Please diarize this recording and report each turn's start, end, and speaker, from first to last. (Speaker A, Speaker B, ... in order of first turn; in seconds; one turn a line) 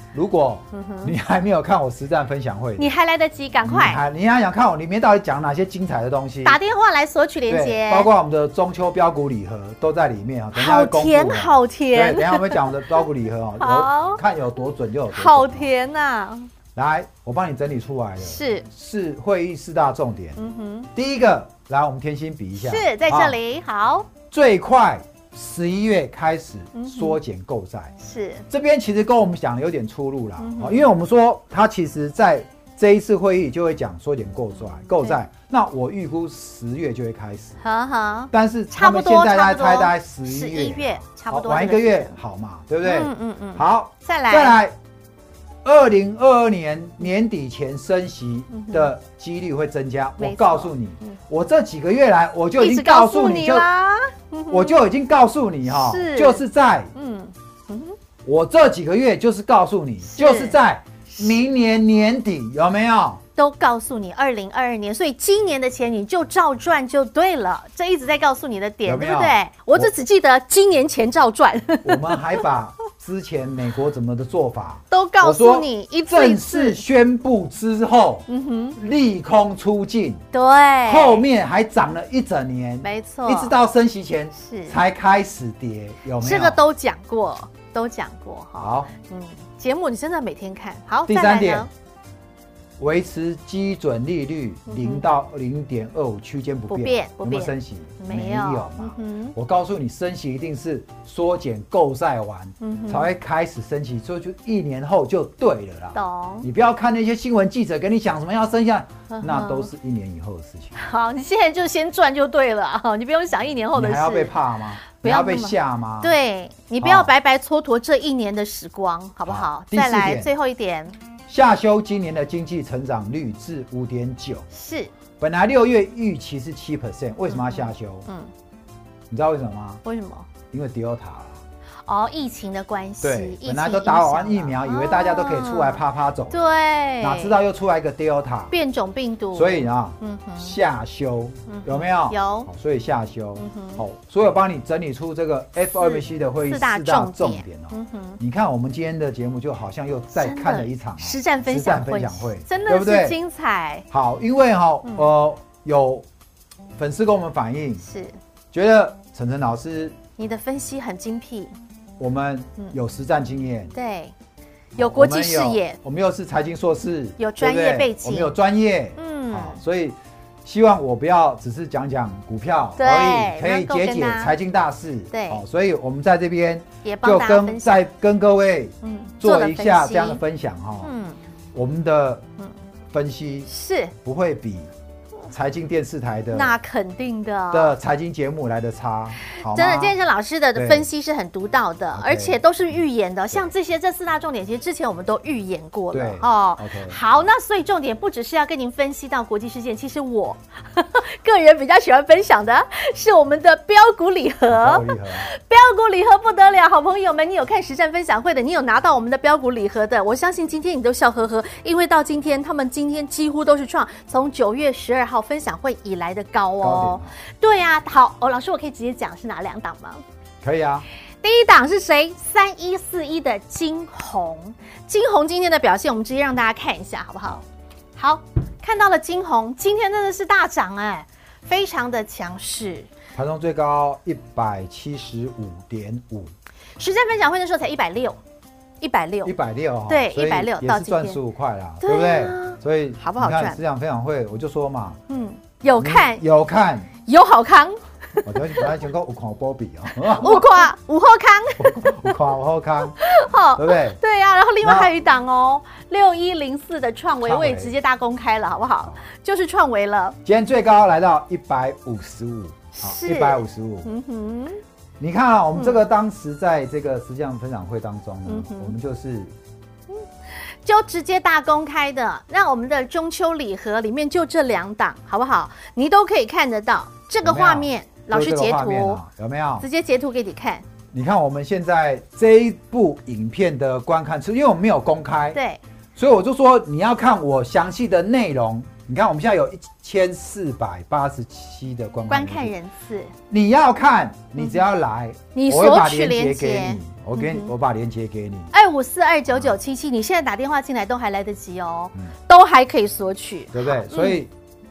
Speaker A: 0.1-2.9
Speaker B: 0.7-1.1
Speaker B: 2.8-4.0
Speaker A: 3.6-6.6
Speaker B: 6.4-8.1
Speaker A: 7.5-15.7
Speaker B: 10.5-13.0
Speaker B: 13.6-14.2
Speaker B: 15.1-16.5
Speaker A: 16.8-20.4
Speaker B: 18.2-18.7
Speaker B: 20.4-20.9
Speaker A: 20.9-23.4
Speaker B: 22.5-24.1
Speaker A: 24.3-27.9
Speaker B: 26.7-27.2
Speaker B: 28.0-28.4
Speaker A: 28.5-37.6
Speaker B: 30.4-30.9
Speaker B: 37.6-42.1
Speaker A: 38.3-44.8
Speaker B: 42.8-44.6
Speaker A: 45.6-53.7
Speaker B: 48.5-48.9
Speaker B: 50.2-51.1
Speaker B: 52.6-54.8
Speaker A: 54.5-56.9
Speaker B: 55.7-58.0
Speaker A: 58.2-63.2
Speaker B: 60.0-60.6
Speaker B: 61.1-61.4
Speaker B: 63.4-72.4
Speaker A: 68.8-69.9
Speaker A: 71.8-80.2
Speaker B: 74.9-76.8
Speaker B: 78.3-78.8
Speaker B: 80.3-81.2
Speaker A: 80.8-86.6
Speaker B: 82.8-83.5
Speaker B: 84.3-84.8
Speaker B: 86.2-91.7
Speaker A: 88.6-88.9
Speaker A: 91.1-91.7
Speaker A: 92.8-110.7
Speaker B: 94.7-95.0
Speaker B: 96.7-99.3
Speaker B: 102.6-103.1
Speaker B: 105.9-106.5
Speaker B: 109.1-109.7
Speaker B: 110.7-114.3
Speaker A: 113.7-116.1
Speaker B: 114.9-120.9
Speaker A: 116.8-117.1
Speaker A: 119.2-120.3
Speaker A: 121.3-124.5
Speaker B: 124.5-124.9
Speaker A: 125.2-128.1
Speaker B: 127.3-128.3
Speaker A: 129.1-129.8
Speaker B: 129.8-130.3
Speaker A: 130.5-131.4
Speaker B: 131.8-137.4
Speaker A: 133.0-138.5
Speaker B: 138.5-140.5
Speaker A: 139.3-153.2
Speaker B: 141.5-142.5
Speaker B: 143.3-143.8
Speaker B: 145.8-148.2
Speaker B: 150.1-153.8
Speaker A: 153.9-156.1
Speaker A: 156.8-157.8
Speaker B: 157.8-158.1
Speaker A: 158.5-160.0
Speaker B: 160.2-161.5
Speaker A: 162.0-163.7
Speaker B: 163.7-164.1
Speaker A: 164.8-180.9
Speaker B: 164.8-165.8
Speaker B: 167.2-168.3
Speaker B: 169.0-169.6
Speaker B: 172.8-174.3
Speaker B: 175.1-175.4
Speaker B: 176.8-177.8
Speaker B: 178.8-180.2
Speaker B: 180.8-181.2
Speaker A: 181.5-182.2
Speaker A: 182.9-183.5
Speaker B: 183.5-183.9
Speaker A: 184.0-184.7
Speaker A: 185.3-186.5
Speaker B: 186.3-187.7
Speaker A: 187.5-190.0
Speaker B: 189.3-220.0
Speaker A: 190.5-190.9
Speaker A: 191.9-192.4
Speaker A: 195.9-197.0
Speaker A: 204.5-205.3
Speaker A: 216.6-217.1
Speaker A: 220.4-220.8
Speaker B: 221.2-227.4
Speaker B: 227.9-232.9
Speaker A: 233.1-236.3
Speaker B: 236.8-238.2
Speaker B: 238.8-239.3
Speaker A: 239.2-245.0
Speaker B: 239.9-241.2
Speaker B: 241.8-243.6
Speaker B: 245.1-246.2
Speaker A: 245.8-246.9
Speaker B: 247.1-248.7
Speaker A: 248.2-250.7
Speaker B: 250.1-252.1
Speaker A: 251.6-253.0
Speaker B: 253.0-260.2
Speaker A: 253.6-254.0
Speaker A: 254.6-254.9
Speaker A: 257.2-257.7
Speaker A: 260.2-263.9
Speaker B: 262.7-264.6
Speaker A: 265.0-269.3
Speaker B: 265.5-265.8
Speaker B: 268.2-268.7
Speaker B: 270.6-279.0
Speaker A: 277.2-279.6
Speaker B: 279.6-280.6
Speaker A: 280.9-285.4
Speaker B: 285.3-285.6
Speaker A: 285.9-292.5
Speaker B: 292.1-293.1
Speaker A: 293.3-298.5
Speaker B: 295.3-297.5
Speaker B: 298.5-304.2
Speaker A: 303.5-304.3